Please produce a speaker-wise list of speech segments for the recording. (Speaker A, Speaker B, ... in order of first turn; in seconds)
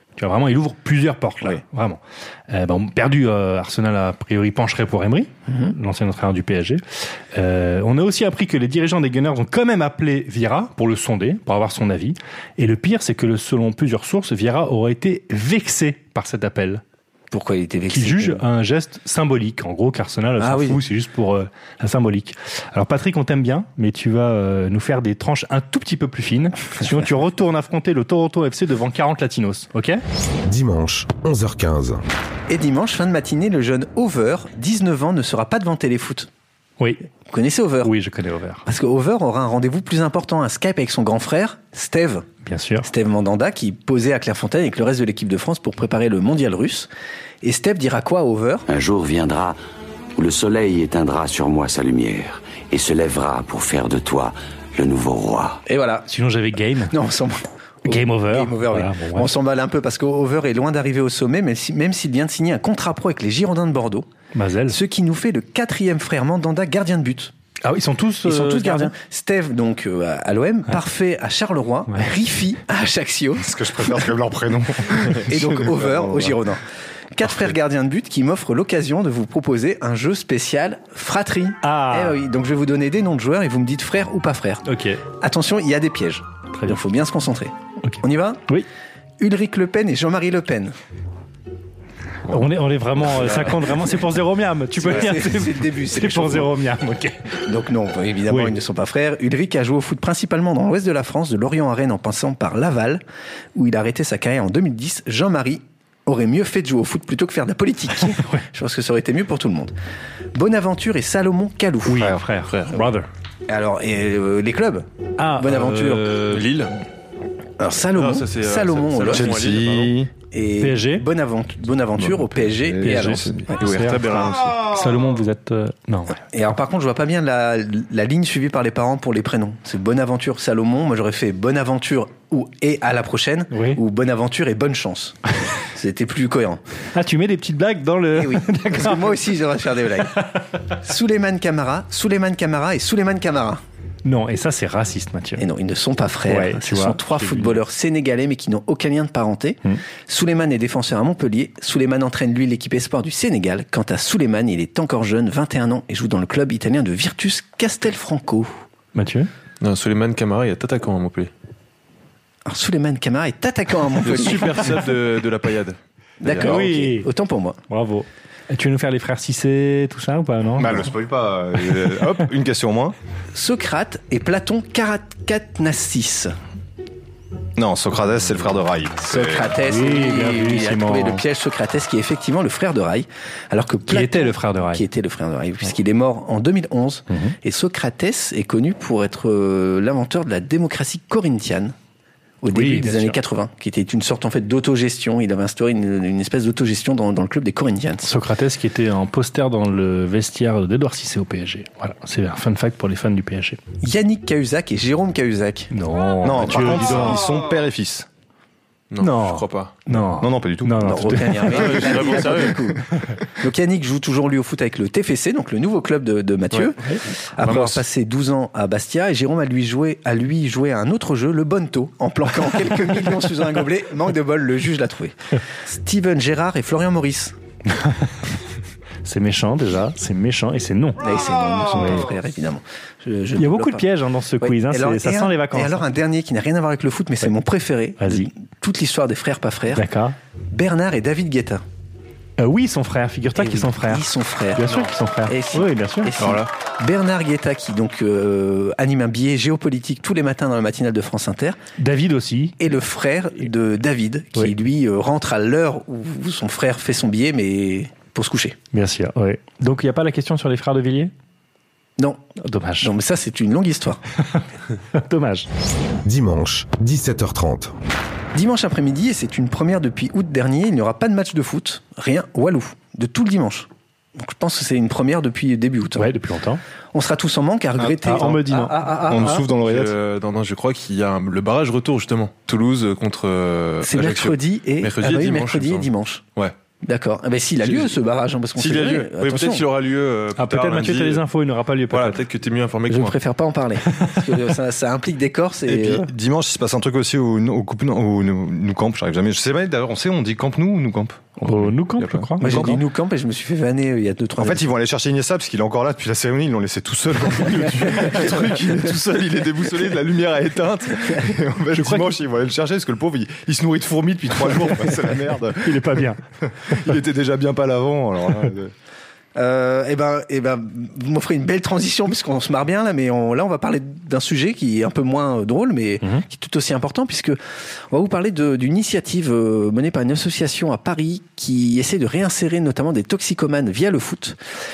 Speaker A: 0.2-6.8, 7.3-16.8, 17.9-30.0, 37.8-38.7, 42.5-42.9, 56.1-56.9, 57.9-59.3, 64.3-64.8, 67.7-68.9, 81.6-82.2, 84.7-85.0, 86.5-86.8, 87.8-88.7, 92.3-97.4, 98.3-98.5, 108.2-108.4, 111.9-113.1, 115.2-116.4, 120.6-121.0, 122.8-126.2, 133.5-133.8, 136.9-139.1, 144.1-145.4, 146.3-147.6, 158.9-159.3, 166.4-167.1, 167.7-170.9, 179.6-181.2, 183.9-184.8, 187.1-187.3, 192.5-193.2, 198.0-203.6, 205.7-207.2, 209.0-212.2, 227.7-228.1, 229.1-231.0, 231.7-232.1, 233.4-235.8, 238.0-238.3, 239.7-240.2, 242.4-246.1, 251.8-252.6, 258.7-261.1, 262.4-262.9, 264.3-265.5, 276.0-276.6, 278.0-279.4, 290.4-292.2, 301.4-302.8, 311.8-312.1, 315.6-316.9
Speaker B: 17.3-18.4, 20.4-20.8, 32.5-36.3, 37.3-37.9, 38.7-42.3, 42.8-46.9, 47.4-48.7, 55.7-56.1, 56.9-64.1, 64.7-67.3, 68.2-74.0, 75.3-84.6, 85.2-88.4, 89.2-90.8, 93.0-94.0, 94.8-96.5, 97.5-103.0, 103.5-109.7, 110.3-112.1, 113.5-114.9, 115.4-116.2, 117.6-119.4, 120.3-123.4, 126.3-135.2, 135.7-136.6, 138.2-143.6, 145.4-158.6, 162.5-164.9, 166.2-167.6, 173.3-176.3, 179.0-191.7, 192.4-198.2, 203.8-205.7, 210.9-212.8, 213.4-216.8, 217.4-227.3, 231.0-233.9, 234.4-239.9, 240.5-241.6, 243.4-251.6, 252.6-258.6, 262.8-264.0, 268.3-276.1, 276.9-279.5, 283.8-286.2, 286.8-289.6, 292.9-296.1, 302.4-304.7, 308.0-308.7, 319.4-327.4, 327.9-334.4
Speaker C: 30.4-32.0, 266.1-267.7
Speaker D: 48.7-49.6, 50.2-55.6
Speaker E: 73.4-76.4, 119.1-120.1, 122.0-123.6, 170.6-172.9, 177.6-179.6, 206.2-208.1, 209.9-211.6, 278.1-278.4, 279.1-280.0, 295.7-302.8, 304.4-318.7
Speaker F: 116.3-116.7, 117.9-120.0, 123.6-124.6, 159.6-161.3, 164.0-166.6, 208.9-209.7, 211.5-212.8, 217.4-217.8, 246.2-246.5, 279.6-286.5, 287.6-288.0, 288.6-291.2, 291.9-293.2